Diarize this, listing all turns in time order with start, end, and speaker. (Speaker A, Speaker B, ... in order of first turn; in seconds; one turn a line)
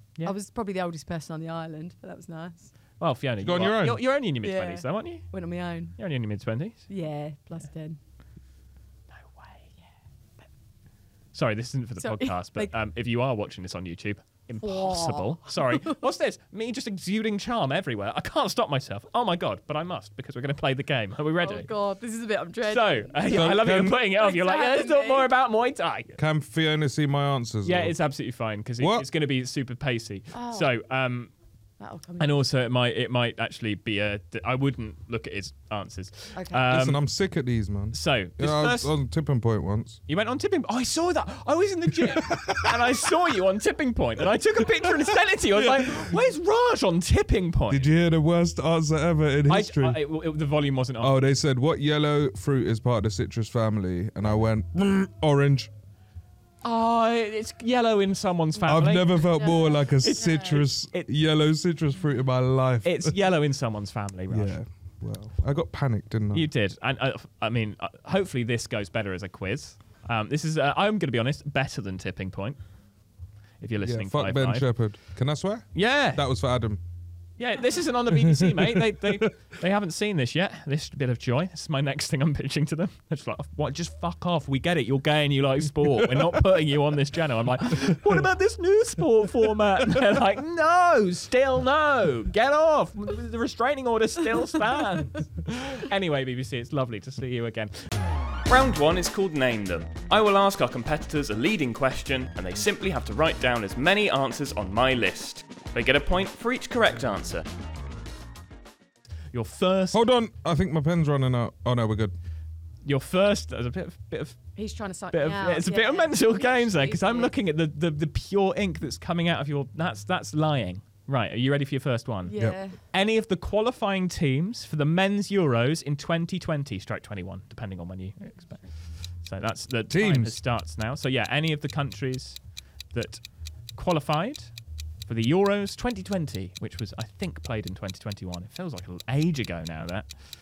Speaker A: 0.2-2.7
Speaker B: 3.0-5.2
Speaker C: 3.4-4.0
Speaker A: 4.4-6.0
Speaker B: 6.0-6.8
Speaker A: 6.9-8.0
Speaker B: 9.1-9.8
Speaker B: 11.3-21.7
Speaker A: 12.0-12.7
Speaker A: 14.6-16.1
Speaker A: 21.4-25.3
Speaker B: 22.6-26.2
Speaker C: 23.3-24.0
Speaker C: 26.2-27.9
Speaker B: 27.6-31.3
Speaker C: 28.8-29.1
Speaker A: 30.3-30.7
Speaker A: 31.8-32.4
Speaker B: 32.2-37.0
Speaker A: 36.4-36.7
Speaker C: 36.7-40.0
Speaker B: 37.9-38.9
Speaker B: 40.1-47.9
Speaker C: 41.9-43.1
Speaker C: 45.5-46.2
Speaker C: 47.7-50.0
Speaker B: 49.5-51.1
Speaker C: 51.0-55.7
Speaker B: 56.6-59.3
Speaker C: 58.6-63.1
Speaker A: 59.2-60.6
Speaker B: 60.0-61.1
Speaker B: 62.8-64.6
Speaker C: 64.3-66.5
Speaker B: 66.3-72.6
Speaker B: 73.6-74.7
Speaker C: 73.8-76.8
Speaker B: 75.7-76.2
Speaker B: 77.4-97.8
Speaker C: 78.1-79.2
Speaker C: 86.0-86.5
Speaker B: 98.5-107.5
Speaker B: 109.3-110.0
Speaker C: 109.9-112.1
Speaker B: 112.8-114.4
Speaker A: 114.5-117.3
Speaker B: 115.1-122.4
Speaker A: 122.3-122.8
Speaker B: 122.9-128.7
Speaker B: 129.2-132.4
Speaker C: 129.9-130.3
Speaker B: 132.9-133.2
Speaker B: 133.7-134.5
Speaker B: 135.1-140.1